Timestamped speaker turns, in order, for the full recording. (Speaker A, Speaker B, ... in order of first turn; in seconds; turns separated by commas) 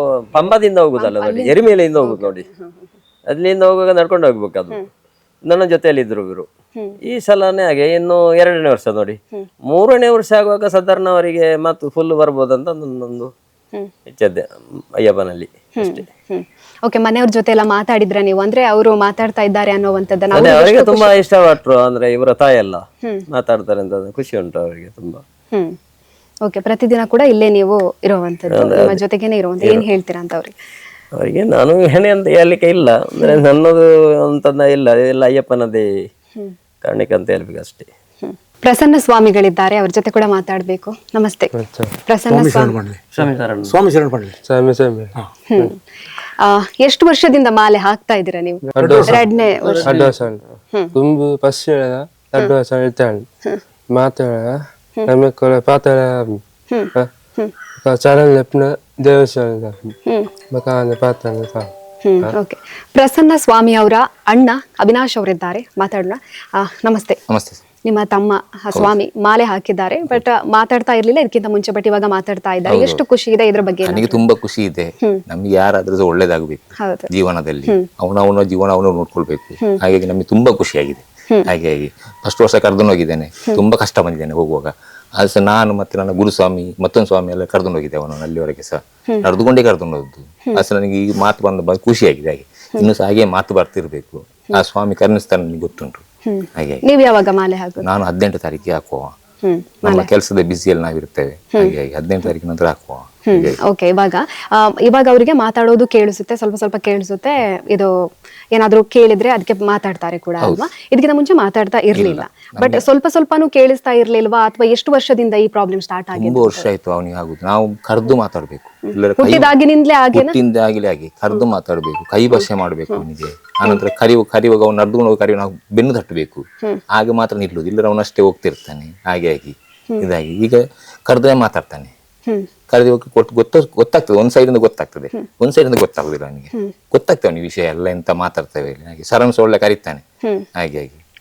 Speaker A: 0.3-2.4, Speaker B: 0.9-2.9, Speaker A: 3.3-4.8, Speaker A: 5.5-6.5, Speaker A: 7.0-13.3, Speaker A: 14.1-14.4, Speaker A: 15.0-16.0, Speaker B: 15.8-21.1, Speaker A: 20.3-25.2, Speaker B: 26.4-30.5, Speaker A: 28.5-29.0, Speaker A: 31.2-35.9, Speaker A: 36.8-37.9, Speaker B: 38.2-41.5, Speaker C: 41.5-41.9, Speaker B: 42.1-42.8, Speaker D: 42.3-44.4, Speaker A: 43.1-43.7, Speaker C: 44.5-45.1, Speaker B: 45.5-45.8, Speaker B: 46.4-50.0, Speaker C: 48.8-49.1, Speaker D: 48.8-49.2, Speaker A: 49.6-50.2, Speaker C: 49.8-50.4, Speaker C: 50.9-53.2, Speaker C: 53.9-56.4, Speaker B: 56.7-57.5, Speaker C: 57.8-60.0, Speaker B: 60.0-60.3, Speaker C: 60.5-61.7, Speaker B: 62.0-67.2, Speaker E: 67.3-67.6, Speaker B: 67.8-74.2, Speaker E: 72.7-73.0, Speaker E: 73.8-96.0, Speaker B: 76.8-77.1, Speaker B: 96.2-97.8, Speaker E: 96.5-96.8, Speaker E: 97.8-99.1, Speaker B: 99.4-100.1, Speaker E: 99.8-103.6, Speaker B: 103.3-107.9, Speaker B: 108.5-116.7, Speaker E: 111.9-112.8, Speaker E: 116.1-119.5, Speaker B: 119.2-120.3, Speaker E: 120.1-131.9, Speaker B: 122.4-123.0, Speaker E: 132.7-140.0, Speaker E: 140.6-141.0